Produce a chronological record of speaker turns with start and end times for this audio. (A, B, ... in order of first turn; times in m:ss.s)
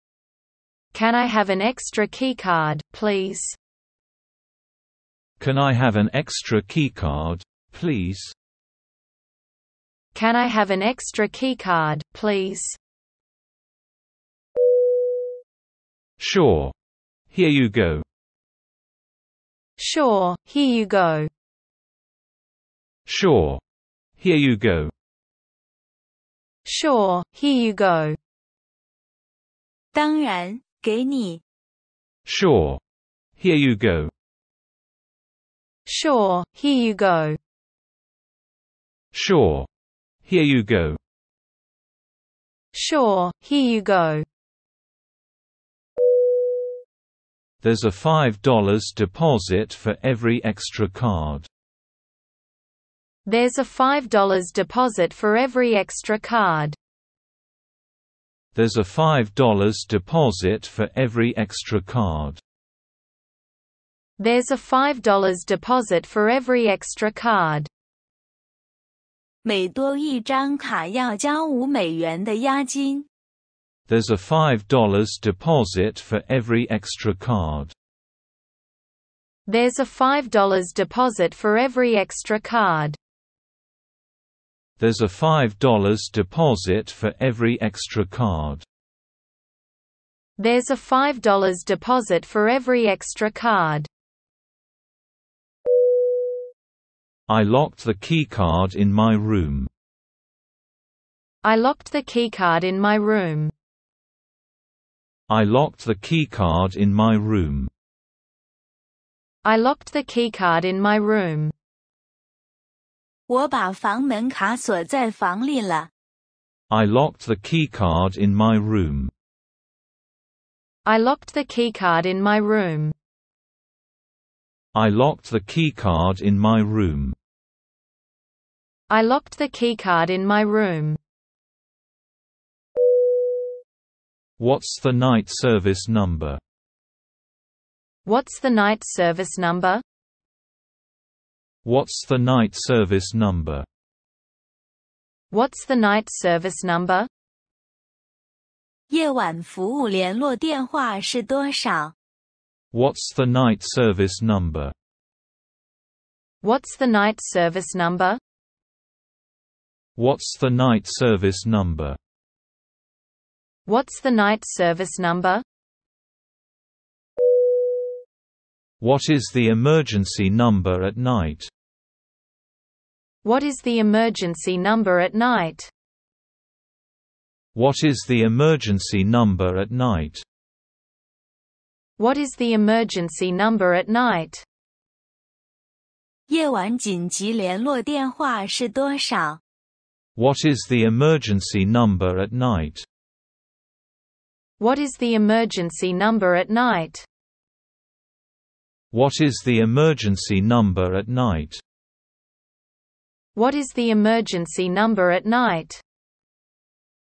0:00.9-0:03.6 A
0:05.4-0:08.3 B
0:10.1-0:12.8 A
0:16.2-0:16.7 B
0:17.3-0:18.0 B
0:19.8-0:21.3 A
0:23.0-0:23.6 B
0:24.2-0:24.9 B
0:26.6-0:28.2 A
0:29.9-0:31.4 C
0:32.2-0:32.8 B
0:33.4-0:34.1 B
0:35.8-0:37.4 A
0:39.1-0:39.7 B
0:40.2-0:41.0 B
0:42.7-0:44.2 A
0:47.6-0:51.5 B
0:53.2-0:56.8 A
0:58.5-1:02.4 B
1:04.2-1:07.7 A
1:09.4-1:13.1 C
1:13.9-1:17.7 B
1:19.5-1:23.0 A
1:24.8-1:28.6 B
1:30.4-1:33.9 A
1:37.3-1:39.7 B
1:41.4-1:43.5 A
1:45.3-1:47.7 B
1:49.4-1:51.5 A
1:53.3-1:55.9 C
1:56.7-1:59.1 B
2:00.8-2:02.9 A
2:04.7-2:07.2 B
2:08.9-2:11.0 A
2:14.4-2:16.4 B
2:18.0-2:19.8 A
2:21.6-2:23.6 B
2:25.3-2:27.1 A
2:28.9-2:31.9 C
2:32.7-2:34.7 B
2:36.4-2:38.2 A
2:40.0-2:42.0 B
2:43.6-2:45.4 A
2:48.8-2:51.5 B
2:53.2-2:55.7 A
2:57.5-3:00.2 B
3:02.0-3:04.4 A
3:06.3-3:09.4 C
3:10.2-3:12.8 B
3:14.6-3:17.0 A
3:18.9-3:21.6 B
3:23.3-3:25.8 A